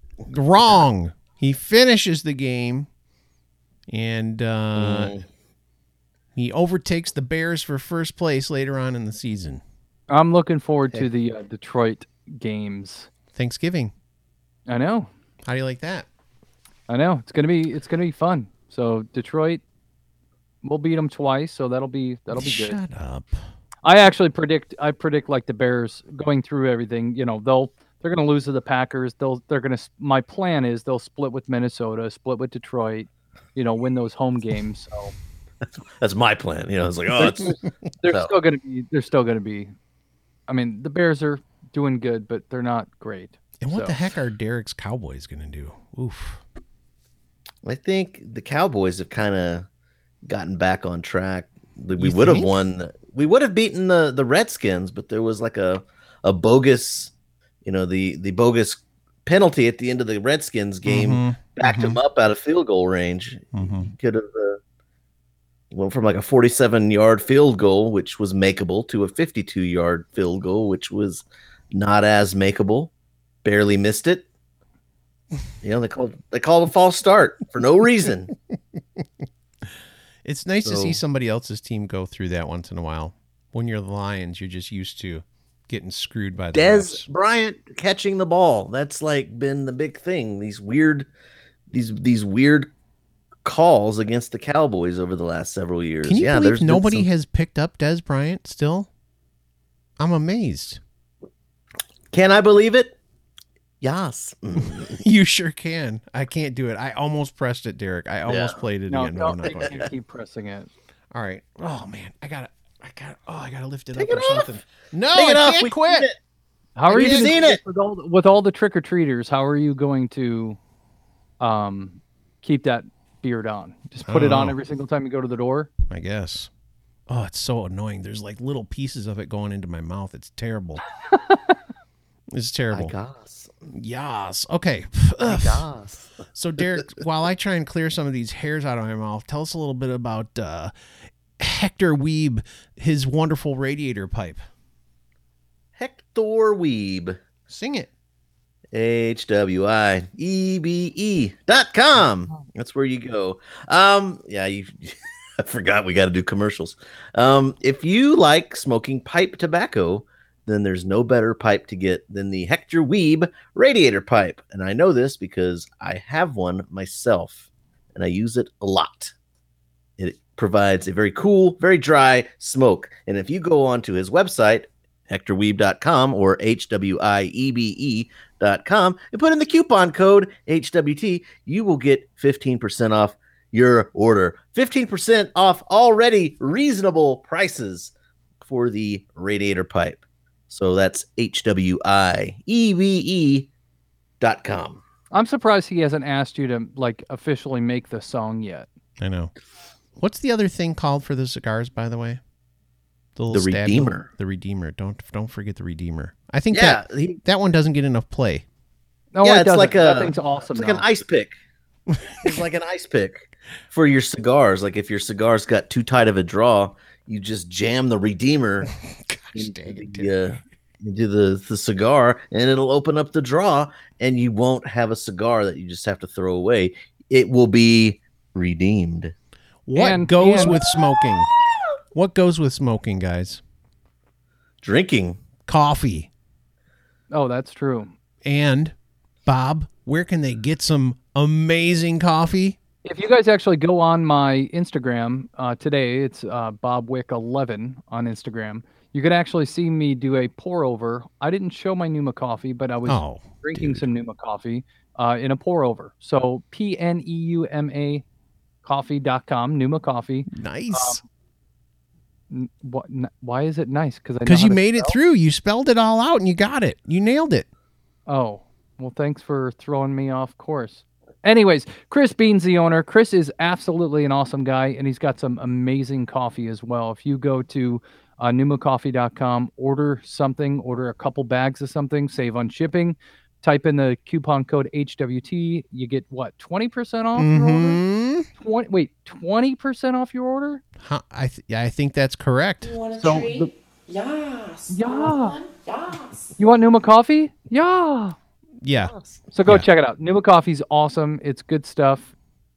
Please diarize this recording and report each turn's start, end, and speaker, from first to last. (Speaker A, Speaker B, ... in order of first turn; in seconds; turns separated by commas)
Speaker A: 0.3-2.9, Speaker A: 3.9-5.2, Speaker B: 4.8-5.2, Speaker A: 6.3-9.6, Speaker C: 10.1-13.1, Speaker A: 13.3-13.9, Speaker C: 14.7-15.1, Speaker A: 15.4-16.1, Speaker C: 16.9-19.6, Speaker C: 20.6-22.8, Speaker A: 22.3-23.4, Speaker C: 23.8-35.1, Speaker B: 36.0-37.5, Speaker C: 37.2-39.7, Speaker B: 38.0-38.3, Speaker C: 40.5-44.0, Speaker A: 43.6-46.4, Speaker B: 47.6-49.7, Speaker B: 50.2-57.1, Speaker A: 52.0-52.5, Speaker B: 57.6-64.6, Speaker A: 60.9-62.0, Speaker A: 63.5-63.9, Speaker B: 65.7-72.9, Speaker B: 73.4-74.2, Speaker B: 75.6-78.3, Speaker A: 80.2-87.0, Speaker B: 80.6-81.0, Speaker B: 86.5-91.1, Speaker B: 91.7-92.7, Speaker B: 93.4-97.1, Speaker A: 96.0-98.9, Speaker A: 100.0-100.8, Speaker B: 102.1-103.0, Speaker B: 103.8-105.0, Speaker A: 104.6-109.9, Speaker B: 108.2-108.6, Speaker C: 108.9-110.7, Speaker B: 109.5-109.9, Speaker A: 111.1-116.1, Speaker B: 114.0-114.6, Speaker B: 115.1-116.2, Speaker C: 116.8-120.6, Speaker B: 116.9-117.6, Speaker A: 116.9-117.3, Speaker C: 121.4-125.7, Speaker A: 124.0-124.6, Speaker A: 125.9-126.5, Speaker A: 127.1-130.8, Speaker C: 131.1-131.4, Speaker A: 132.3-132.9, Speaker B: 132.7-133.5, Speaker A: 133.7-135.7, Speaker B: 135.2-136.1, Speaker A: 136.3-140.7, Speaker A: 141.4-144.4, Speaker B: 145.8-147.2, Speaker A: 147.5-147.9, Speaker B: 148.7-169.1, Speaker B: 170.0-193.5, Speaker B: 194.2-194.8, Speaker C: 195.1-198.7, Speaker A: 199.0-199.3, Speaker A: 200.0-202.2, Speaker A: 203.2-208.4, Speaker B: 203.3-204.1, Speaker B: 206.5-207.2, Speaker C: 209.1-210.8, Speaker B: 209.2-211.3, Speaker A: 211.9-212.4, Speaker B: 212.2-218.7, Speaker A: 218.6-220.4, Speaker B: 219.3-229.1, Speaker A: 229.7-231.3, Speaker C: 229.7-230.6, Speaker A: 231.9-233.4, Speaker B: 234.6-235.2, Speaker A: 235.5-236.1, Speaker C: 237.1-237.9, Speaker A: 238.2-238.7, Speaker A: 239.2-242.6, Speaker C: 242.8-258.0, Speaker A: 252.8-253.9, Speaker C: 258.6-261.0, Speaker A: 260.3-261.0, Speaker C: 262.3-265.0, Speaker A: 264.2-267.5, Speaker C: 268.1-287.8, Speaker A: 287.1-288.3, Speaker C: 288.3-290.6, Speaker A: 290.8-292.8, Speaker D: 292.6-296.2, Speaker C: 292.9-293.5, Speaker C: 294.7-295.4, Speaker C: 296.2-298.1, Speaker A: 298.6-298.9, Speaker B: 298.8-299.2, Speaker C: 299.3-302.1